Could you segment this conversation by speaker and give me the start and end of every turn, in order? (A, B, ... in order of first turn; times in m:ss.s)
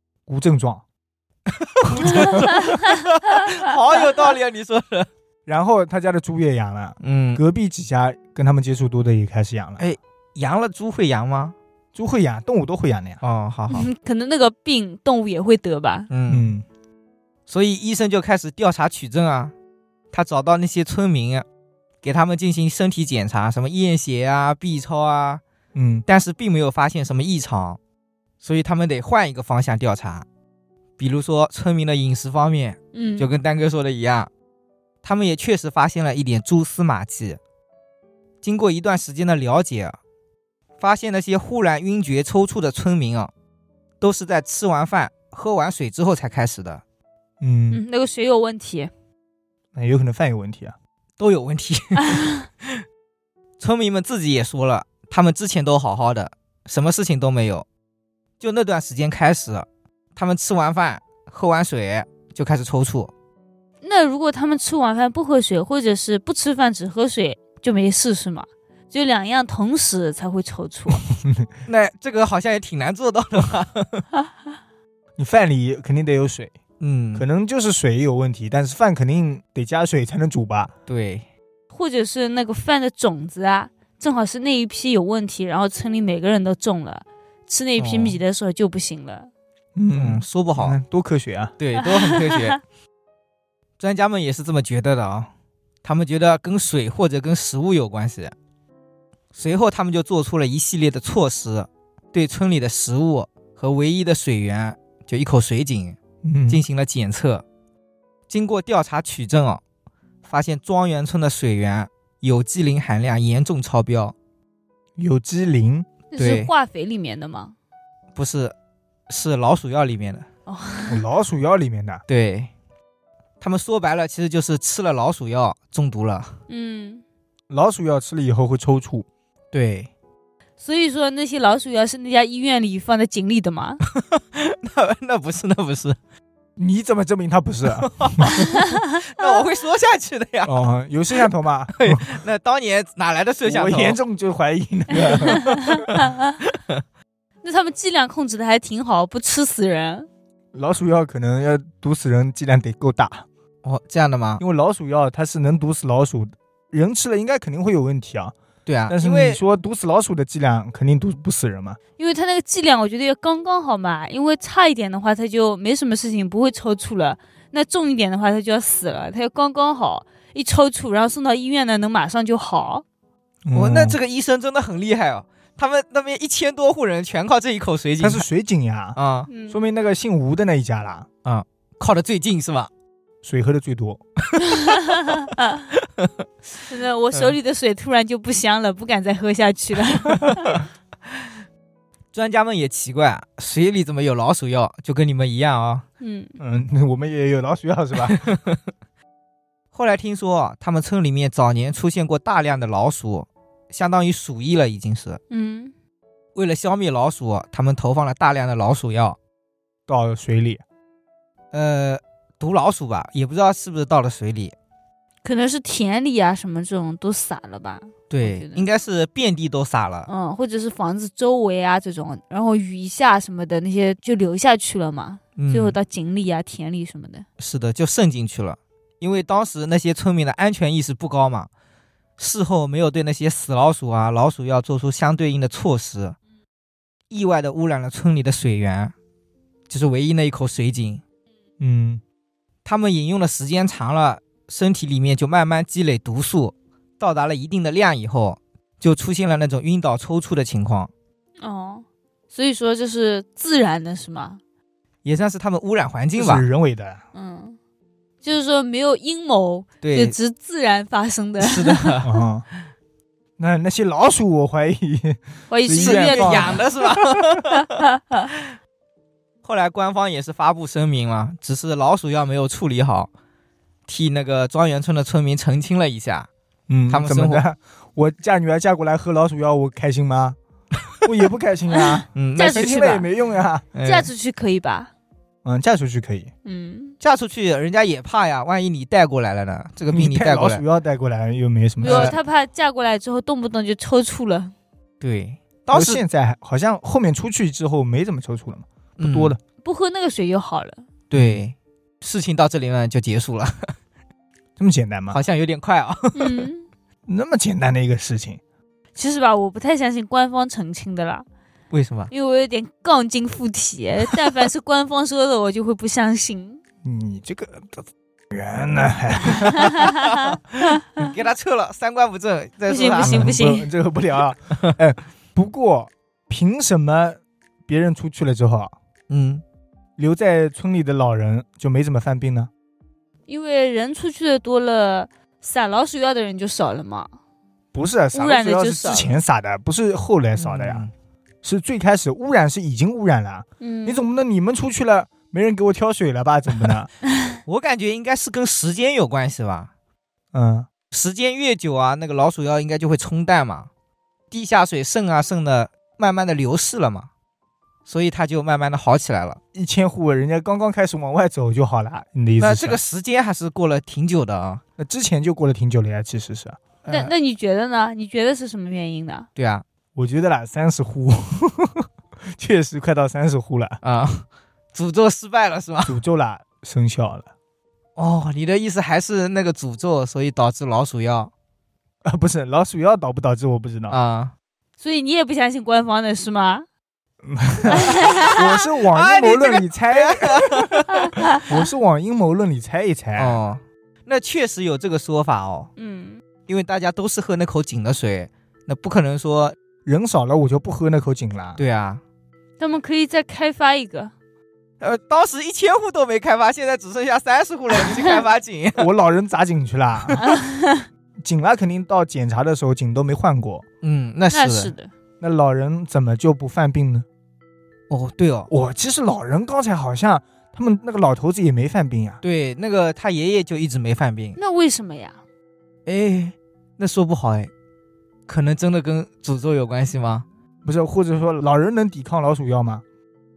0:00.3-0:00.8 A
0:01.5-0:05.1 B
0:02.0-0:02.5 A
0:05.4-0:09.8 A
0:07.0-0:07.4 B
0:09.8-0:11.6 B
0:11.9-0:13.2 A
0:13.2-0:13.9 B
0:13.7-0:16.1 C
0:16.1-0:16.5 B
0:16.3-0:16.6 A
0:17.5-0:19.5 B
0:20.1-0:21.4 B
0:22.0-0:25.4 B
0:25.7-0:26.0 A
0:26.0-0:27.8 B
0:28.4-0:30.2 B
0:31.0-0:34.3 B
0:32.9-0:33.3 C
0:35.0-0:37.4 B
0:38.4-0:40.0 B
0:40.8-0:43.3 B
0:44.0-0:46.8 B
0:47.4-0:47.8 A
0:47.7-0:48.9 C
0:49.7-0:50.7 A
0:51.2-0:52.8 B
0:53.6-0:57.6 B
0:58.4-1:03.1 B
1:03.8-1:11.0 C
1:11.1-1:11.5 A
1:11.6-1:14.0 B
1:15.2-1:16.5 A
1:16.8-1:17.2 B
1:17.1-1:20.7 A
1:20.9-1:21.2 B
1:21.7-1:29.3 C
1:27.8-1:28.2 B
1:29.7-1:31.5 A
1:29.9-1:30.8 B
1:31.6-1:32.6 B
1:31.8-1:32.5 C
1:33.8-1:35.3 B
1:35.8-1:38.3 B
1:39.3-1:46.0 B
1:46.2-1:46.6 A
1:46.5-1:47.4 B
1:48.3-1:49.6 B
1:50.2-1:54.1 B
1:55.0-1:55.9 A
1:56.1-1:57.5 C
1:56.2-1:56.5 B
1:58.2-1:58.5 B
1:59.1-2:00.2 B
2:00.5-2:01.0 C
2:00.9-2:02.0 A
2:02.1-2:02.5 B
2:03.4-2:06.3 B
2:06.5-2:07.0 C
2:07.5-2:09.1 A
2:09.5-2:09.9 B
2:10.6-2:13.8 C
2:13.9-2:16.0 B
2:16.6-2:18.5 A
2:17.7-2:20.5 B
2:18.8-2:19.4 C
2:20.4-2:22.0 A
2:21.7-2:24.0 B
2:23.4-2:25.6 A
2:25.9-2:26.8 B
2:27.4-2:30.1 C
2:30.5-2:33.3 A
2:33.6-2:34.4 B
2:34.4-2:38.3 A
2:38.6-2:39.4 B
2:38.9-2:41.8 A
2:42.0-2:52.8 C
2:53.4-2:54.0 A
2:53.5-2:58.2 B
2:58.0-2:59.0 A
2:58.9-2:59.3 B
2:59.3-2:59.6 C
2:59.5-3:01.1 A
3:01.2-3:02.7 B
3:03.2-3:04.0 A
3:04.7-3:05.7 C
3:05.8-3:06.2 B
3:06.6-3:10.6 C
3:12.1-3:15.8 B
3:16.0-3:16.3 C
3:16.4-3:18.2 A
3:18.0-3:18.6 B
3:19.7-3:25.2 B
3:25.3-3:25.7 C
3:26.3-3:29.2 B
3:29.9-3:30.6 A
3:31.5-3:34.5 B
3:35.2-3:38.6 C
3:38.1-3:40.1 B
3:40.1-3:47.2 C
3:45.4-3:45.8 B
3:47.4-3:51.5 B
3:52.2-3:56.2 B
3:57.1-3:58.9 B
3:59.7-4:01.0 B
4:01.6-4:02.0 A
4:02.6-4:10.9 B
4:11.4-4:14.4 C
4:15.0-4:16.4 B
4:16.2-4:17.0 A
4:17.1-4:17.6 C
4:18.2-4:22.1 C
4:19.8-4:20.2 B
4:21.4-4:22.0 B
4:22.0-4:22.4 A
4:23.4-4:26.8 A
4:25.5-4:26.7 C
4:25.8-4:27.8 B
4:27.8-4:28.2 C
4:29.4-4:33.1 B
4:33.9-4:36.3 B
4:36.7-4:40.4 A
4:36.9-4:37.4 B
4:41.0-4:43.6 A
4:42.1-4:42.8 B
4:42.4-4:43.1 C
4:43.7-4:44.1 B
4:43.8-4:44.9 C
4:45.4-4:46.3 A
4:46.4-4:47.0 C
4:47.0-4:50.6 B
4:49.9-4:52.2 A
4:51.8-4:52.2 B
4:51.8-4:54.5 C
4:55.0-4:56.0 B
4:55.7-4:59.4 A
4:59.0-4:59.4 B
4:59.6-5:00.8 C
5:01.1-5:03.7 B
5:01.1-5:01.4 A
5:04.6-5:05.2 A
5:05.1-5:06.5 B
5:06.1-5:06.7 C
5:07.1-5:08.4 A
5:09.0-5:11.2 C
5:11.7-5:12.1 B
5:12.1-5:16.6 C
5:16.8-5:19.9 A
5:19.7-5:23.4 B
5:22.7-5:23.7 C
5:23.0-5:28.7 A
5:29.1-5:29.4 B
5:30.0-5:32.5 A
5:33.3-5:37.1 C
5:37.7-5:40.8 A
5:38.1-5:39.2 C
5:40.4-5:40.9 B
5:41.4-5:46.9 A
5:43.6-5:44.0 C
5:47.4-5:49.7 B
5:50.3-5:50.7 A
5:50.9-5:53.7 B
5:54.3-5:57.1 B
5:57.8-5:59.4 B
5:59.5-6:02.8 A
6:02.4-6:04.6 B
6:04.8-6:06.6 A
6:06.8-6:07.1 B
6:06.9-6:09.3 C
6:09.4-6:09.6 B
6:09.9-6:13.8 A
6:13.8-6:16.0 B
6:15.9-6:17.3 A
6:18.0-6:21.3 B
6:22.0-6:24.0 A
6:23.9-6:24.3 B
6:24.8-6:26.6 C
6:27.2-6:33.4 A
6:27.8-6:28.4 C
6:27.8-6:31.4 B
6:33.2-6:35.7 B
6:35.8-6:36.2 C
6:36.4-6:39.6 B
6:39.8-6:41.6 A
6:41.6-6:42.0 B
6:42.6-6:44.1 C
6:44.8-6:48.9 B
6:48.8-6:50.2 A
6:50.2-6:50.9 C
6:51.2-6:53.6 A
6:53.8-6:54.7 B
6:54.3-6:54.9 C
6:55.2-6:57.0 A
6:57.9-6:58.5 B
6:58.5-7:02.2 A
7:02.2-7:04.4 B
7:04.4-7:05.2 C
7:05.8-7:07.5 B
7:08.3-7:10.2 B
7:10.6-7:12.8 A